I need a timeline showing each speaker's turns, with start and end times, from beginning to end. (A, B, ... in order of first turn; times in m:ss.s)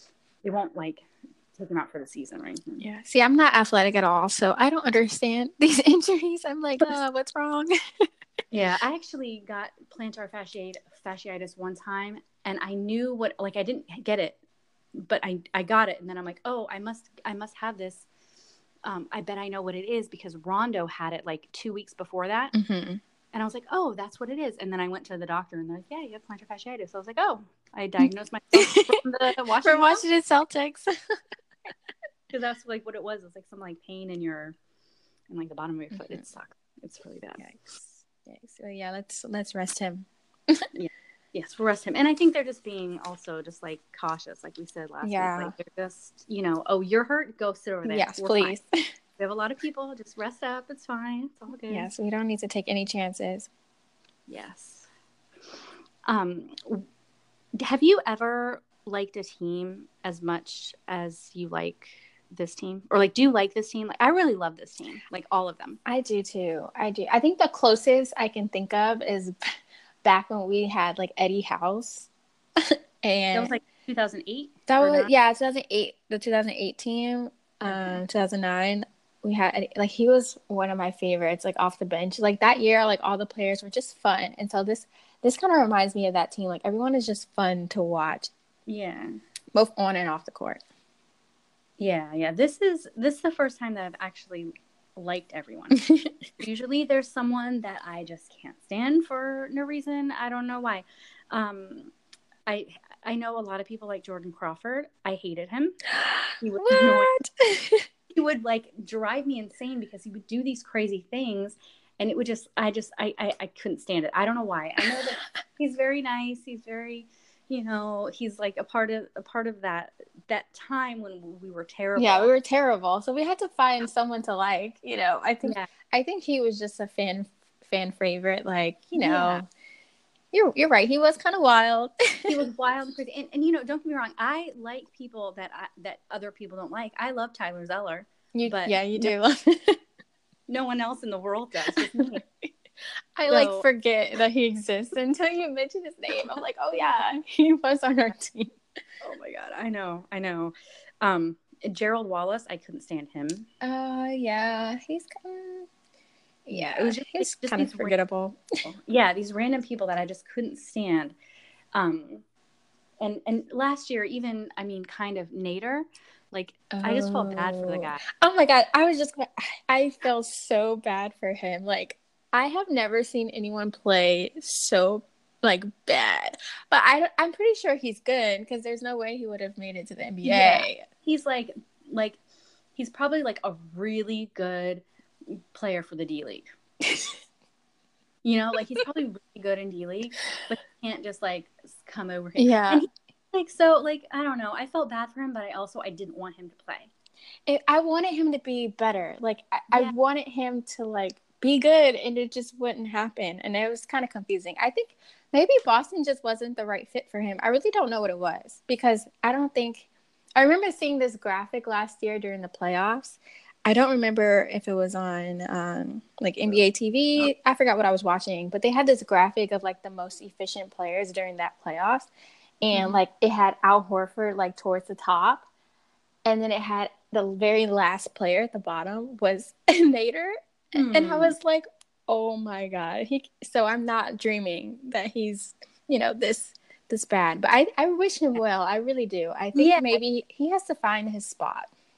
0:00.4-0:02.9 A
0:02.8-0:08.1 B
0:08.5-0:14.4 A
0:14.9-0:18.1 A
0:18.8-0:22.5 A
0:22.5-0:23.0 B
0:23.3-0:30.0 A
0:28.0-0:29.0 B
0:29.6-0:30.9 B
0:32.3-0:34.5 A
0:35.3-0:37.5 A
0:35.9-0:36.2 B
0:37.4-0:40.7 B
0:40.7-0:48.6 A
0:45.0-0:45.5 B
0:47.8-0:48.9 B
0:49.2-0:51.9 A
0:51.7-0:53.5 B
0:54.3-0:54.9 A
0:56.0-0:56.9 A
0:57.6-1:05.8 A
1:05.8-1:09.4 B
1:10.0-1:13.5 B
1:13.3-1:15.1 A
1:14.7-1:28.3 B
1:17.6-1:18.0 A
1:28.7-1:29.2 A
1:29.5-1:30.6 B
1:31.8-1:35.8 A
1:35.8-1:36.1 B
1:36.4-1:41.9 A
1:42.5-1:45.8 A
1:45.9-1:47.9 B
1:46.4-1:47.1 A
1:48.1-2:02.3 A
2:02.0-2:09.5 B
2:08.9-2:09.4 A
2:10.3-2:12.4 B
2:12.3-2:19.1 A
2:18.3-2:19.8 B
2:20.5-2:22.2 A
2:21.7-2:22.5 B
2:23.2-2:28.6 B
2:23.3-2:23.6 A
2:29.0-2:33.5 A
2:33.6-2:35.7 B
2:36.4-2:38.4 B
2:36.5-2:38.0 A
2:38.6-2:41.2 A
2:41.7-2:42.2 A
2:43.0-2:48.0 A
2:46.7-3:00.8 B
3:00.2-3:02.2 A
3:02.8-3:06.5 A
3:06.8-3:07.2 B
3:08.2-3:16.9 A
3:12.4-3:12.9 B
3:17.5-3:42.1 B
3:42.6-3:45.4 B
3:42.7-3:43.0 A
3:46.2-4:01.7 B
3:50.7-3:51.4 A
3:59.5-4:00.0 A